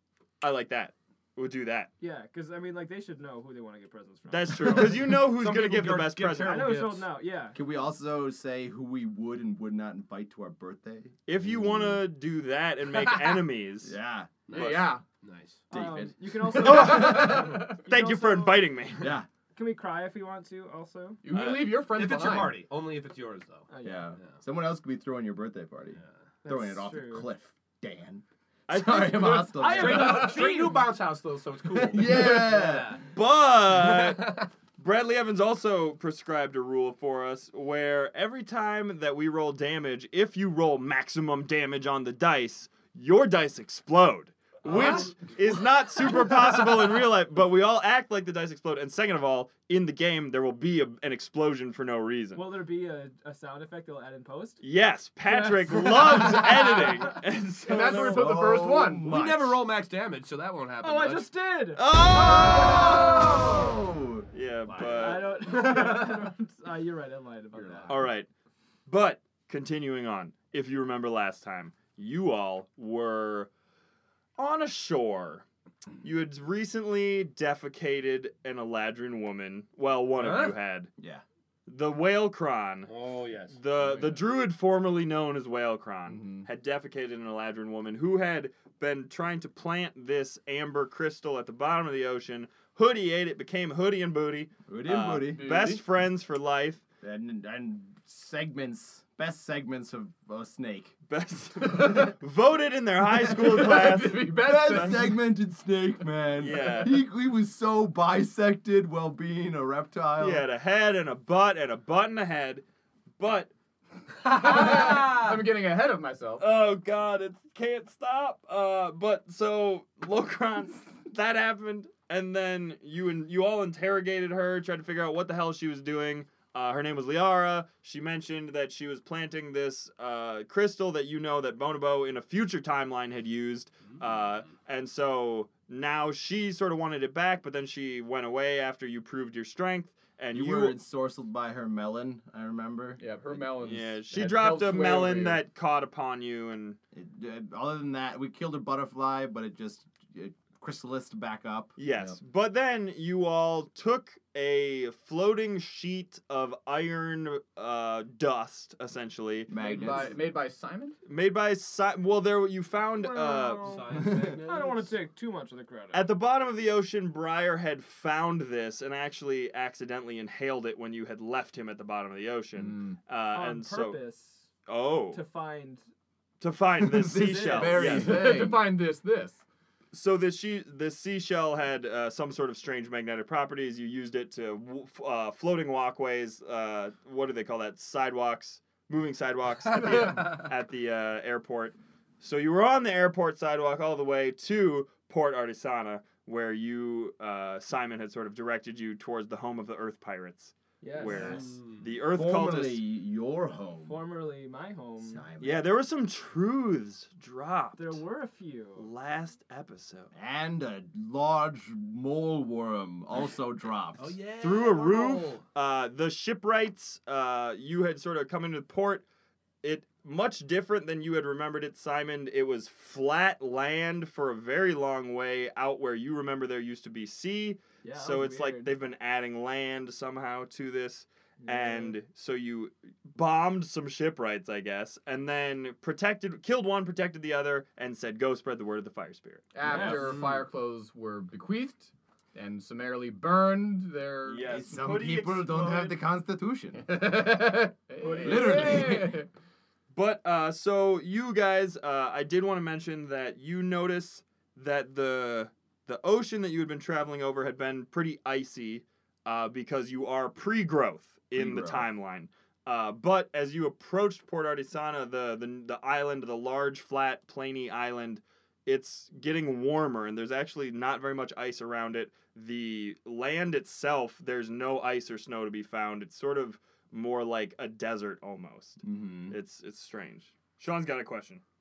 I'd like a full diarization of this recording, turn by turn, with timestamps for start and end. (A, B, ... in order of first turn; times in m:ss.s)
0:00.4-0:01.9 A
0:02.0-0:05.1 B
0:04.3-0:06.7 A
0:04.8-0:07.1 C
0:06.4-0:07.6 B
0:07.6-0:12.0 D
0:11.3-0:14.0 A
0:13.8-0:14.5 D
0:14.5-0:15.6 C
0:14.5-0:14.9 A
0:14.5-0:15.0 E
0:15.7-0:16.2 D
0:15.7-0:18.7 B
0:16.5-0:19.1 A
0:16.8-0:17.4 E
0:19.0-0:19.3 D
0:19.5-0:21.2 B
0:21.2-0:22.6 E
0:21.3-0:21.7 A
0:21.5-0:24.4 C
0:23.7-0:24.2 B
0:23.8-0:30.4 D
0:26.4-0:27.3 B
0:28.7-0:29.5 A
0:29.2-0:30.9 B
0:29.7-0:33.1 C
0:31.7-0:33.0 D
0:33.1-0:52.4 A
0:33.8-0:34.4 C
0:44.6-0:45.1 C
0:46.1-0:46.8 C
0:52.4-0:54.6 B
0:54.6-0:58.4 A
0:55.3-0:57.2 B
0:57.6-0:59.1 E
0:57.7-0:58.2 B
0:58.1-0:59.6 D
0:59.0-1:01.3 C
1:00.8-1:01.9 B
1:01.8-1:03.4 A
1:02.1-1:05.1 D
1:02.6-1:03.6 B
1:04.3-1:05.3 A
1:04.8-1:06.3 C
1:04.9-1:08.0 B
1:07.5-1:08.1 C
1:07.9-1:08.3 A
1:08.9-1:13.5 A
1:14.4-1:15.4 A
1:16.0-1:20.9 A
1:20.2-1:20.6 C
1:21.0-1:21.2 D
1:21.7-1:22.9 A
1:22.9-1:23.6 C
1:23.5-1:36.8 A
1:26.1-1:26.5 E
1:34.7-1:35.5 D
1:35.3-1:35.8 E
1:37.0-1:41.0 D
1:41.1-1:45.0 A
1:41.7-1:42.1 E
1:43.2-1:45.1 E
1:44.4-1:50.4 D
1:46.4-1:47.0 A
1:50.2-1:52.6 A
1:53.2-1:53.5 A
1:54.2-1:56.5 E
1:54.2-1:55.4 A
1:56.4-2:20.8 A
2:20.3-2:23.4 D
2:23.0-2:25.4 E
2:23.6-2:26.8 A
2:26.9-2:31.8 D
2:31.8-2:39.5 A
2:39.5-2:40.1 D
2:39.6-2:41.0 E
2:41.1-2:43.8 A
2:43.0-2:46.1 B
2:43.6-2:44.9 C
2:45.9-2:54.0 A
2:52.6-2:53.0 E
2:53.3-2:54.5 B
2:54.7-2:55.2 A
2:55.1-2:55.8 B
2:56.4-2:58.5 A
2:56.8-2:58.6 D
2:57.2-2:57.8 B
2:57.5-2:59.4 E
2:59.9-3:22.8 A
3:09.8-3:10.4 E
3:20.8-3:21.4 B
3:21.0-3:24.0 D
3:21.2-3:21.8 C
3:23.8-3:25.2 B
3:25.0-3:25.7 D
3:25.4-3:28.0 A
3:27.8-3:28.9 B
3:28.8-3:30.1 A
3:30.1-3:34.2 D
3:34.0-3:35.4 C
3:34.4-3:39.0 A
3:39.6-4:00.2 A
3:47.8-3:48.7 B
3:51.4-3:52.0 B
3:59.5-4:04.6 E
3:59.7-4:00.4 C
4:04.2-4:06.0 A
4:04.5-4:06.9 D
4:06.7-4:09.3 E
4:08.0-4:08.9 B
4:08.1-4:08.6 A
4:08.2-4:09.2 D
4:09.9-4:41.4 A
4:21.4-4:21.9 D
4:38.8-4:39.4 D